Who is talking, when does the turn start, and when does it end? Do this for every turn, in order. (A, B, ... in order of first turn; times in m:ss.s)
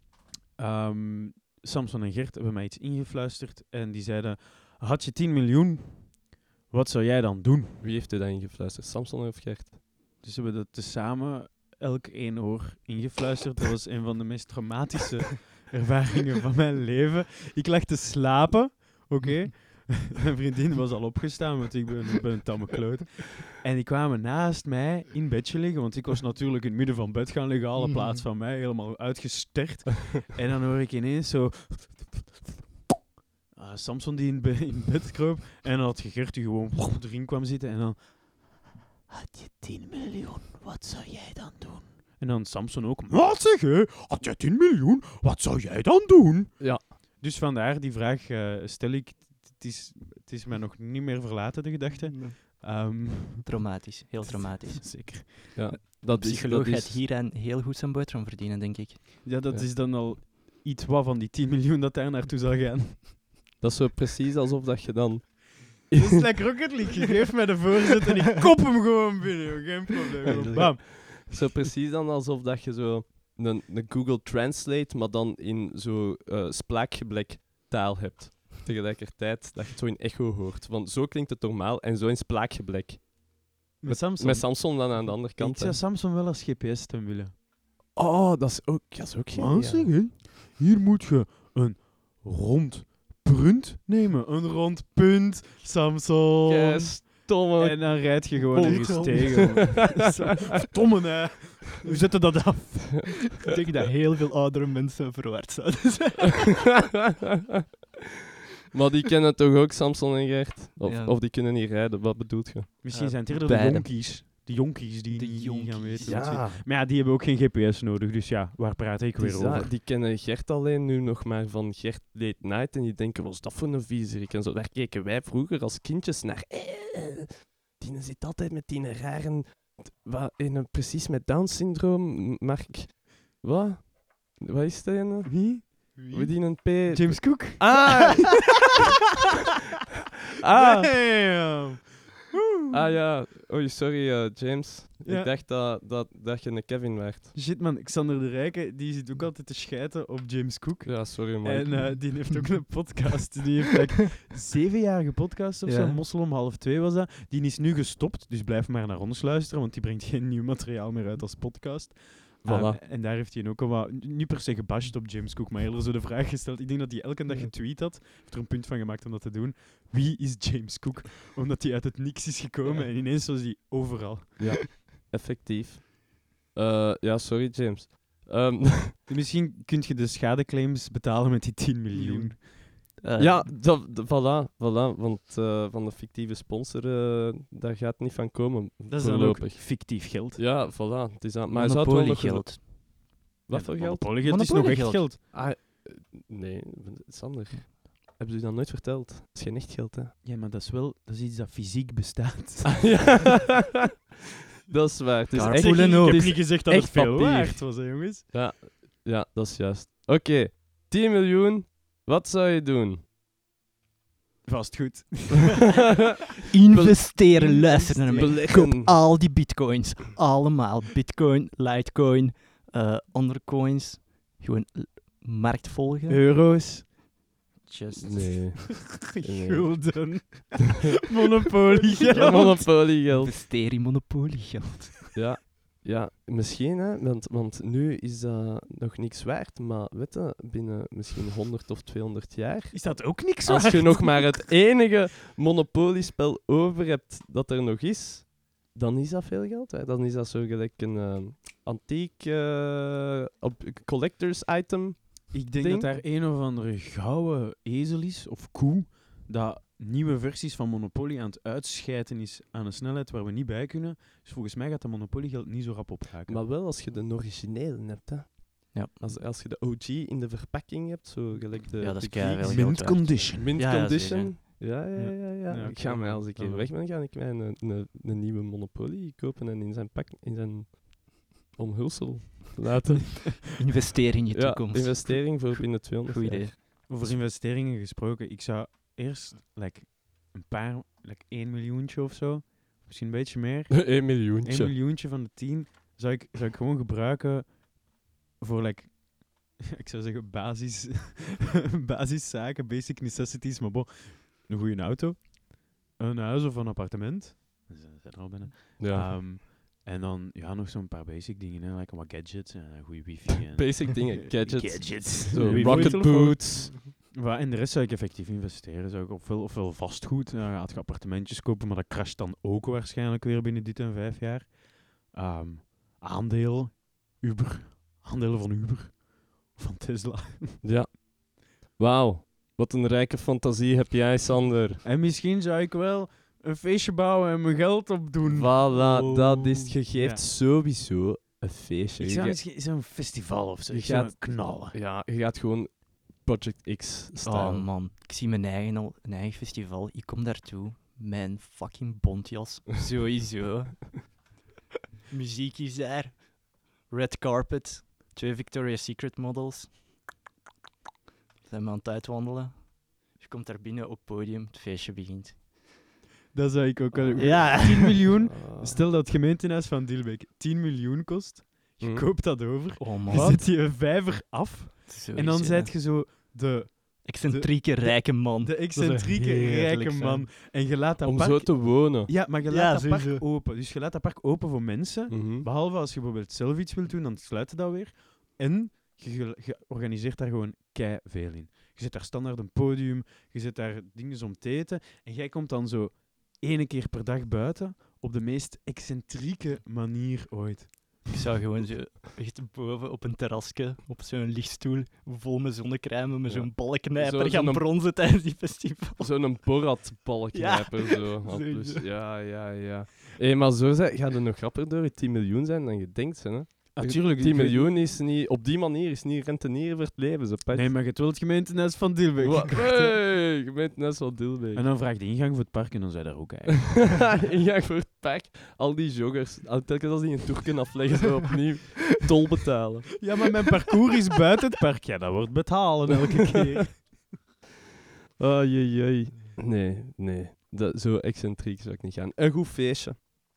0:00.6-0:07.8 A
0:07.8-0:09.8 B
0:10.2-0:32.5 A
0:33.5-0:38.1 A
0:39.1-0:55.5 A
0:52.0-0:59.1 C
0:55.6-0:57.0 B
0:59.2-1:03.1 A
1:03.6-1:06.2 B
1:05.9-1:11.5 A
1:10.3-1:10.7 C
1:10.3-1:23.1 B
1:23.8-1:27.3 A
1:23.8-1:25.8 B
1:28.0-1:30.0 B
1:29.4-1:43.5 A
1:36.4-1:40.3 B
1:38.6-1:39.8 C
1:43.4-1:46.5 C
1:46.9-1:47.6 B
1:48.7-1:52.7 B
1:50.8-1:51.2 C
1:52.8-1:59.7 A
1:52.9-1:54.1 C
1:55.1-1:56.3 C
1:56.0-1:56.6 B
1:59.2-2:18.8 B
2:15.3-2:18.4 A
2:16.0-2:16.3 C
2:20.4-2:21.0 B
2:20.4-2:22.8 A
2:22.7-2:27.3 B
2:25.0-2:25.3 A
2:27.3-2:54.6 A
2:30.8-2:32.0 B
2:35.7-2:36.0 C
2:42.4-2:42.8 B
2:54.4-2:56.0 B
2:56.5-2:59.0 B
2:59.1-3:02.5 A
3:02.0-3:02.4 C
3:03.0-3:03.5 C
3:03.2-3:12.6 B
3:08.9-3:10.6 A
3:11.5-3:12.6 C
3:13.5-3:14.1 B
3:13.5-3:15.2 A
3:14.2-3:15.1 C
3:15.3-3:20.1 B
3:20.2-3:23.3 A
3:22.7-3:23.9 B
3:24.7-3:33.0 B
3:25.3-3:26.4 C
3:25.4-3:28.3 A
3:34.4-3:36.0 A
3:36.5-3:46.3 C
3:36.7-3:39.0 B
3:37.4-3:38.4 A
3:46.1-3:46.9 A
3:47.6-3:48.4 C
3:48.0-3:50.2 B
3:49.1-3:52.8 A
3:52.0-3:55.1 C
3:52.1-3:53.4 B
3:55.2-4:15.9 B
4:02.7-4:04.4 A
4:15.3-4:26.4 A
4:26.3-4:40.8 B
4:28.7-4:29.0 C
4:31.8-4:34.4 C
4:32.2-4:33.5 A
4:35.0-4:36.7 A
4:41.4-4:43.6 B
4:43.6-4:46.9 C
4:44.3-4:47.2 B
4:46.9-4:57.6 A
4:53.7-4:54.7 B
4:58.4-5:05.4 A
5:06.0-5:30.6 A
5:08.8-5:09.2 B
5:13.5-5:16.8 B
5:15.4-5:16.4 C
5:30.6-5:31.0 B
5:31.7-5:34.8 B
5:34.8-5:40.2 A
5:38.2-5:42.4 B
5:42.0-5:44.8 A
5:43.7-5:47.7 B
5:47.2-5:54.2 C
5:55.1-5:59.8 C
6:01.5-6:05.5 C
6:06.3-6:41.1 A
6:07.0-6:08.8 B
6:07.2-6:08.0 C
6:11.8-6:12.1 B
6:12.8-6:13.5 C
6:13.1-6:13.4 B
6:14.9-6:15.8 C
6:17.0-6:20.3 C
6:21.0-6:22.1 B
6:22.5-6:23.3 C
6:25.1-6:25.5 B
6:41.1-6:49.5 C
6:46.3-6:47.7 B
6:49.0-7:00.7 B
6:50.3-6:51.9 C
6:56.8-6:57.8 A
7:00.5-7:03.0 A
7:02.2-7:04.7 B
7:04.6-7:07.2 A
7:06.7-7:13.0 B
7:13.0-7:17.0 A
7:15.9-7:16.5 B
7:18.2-7:23.1 B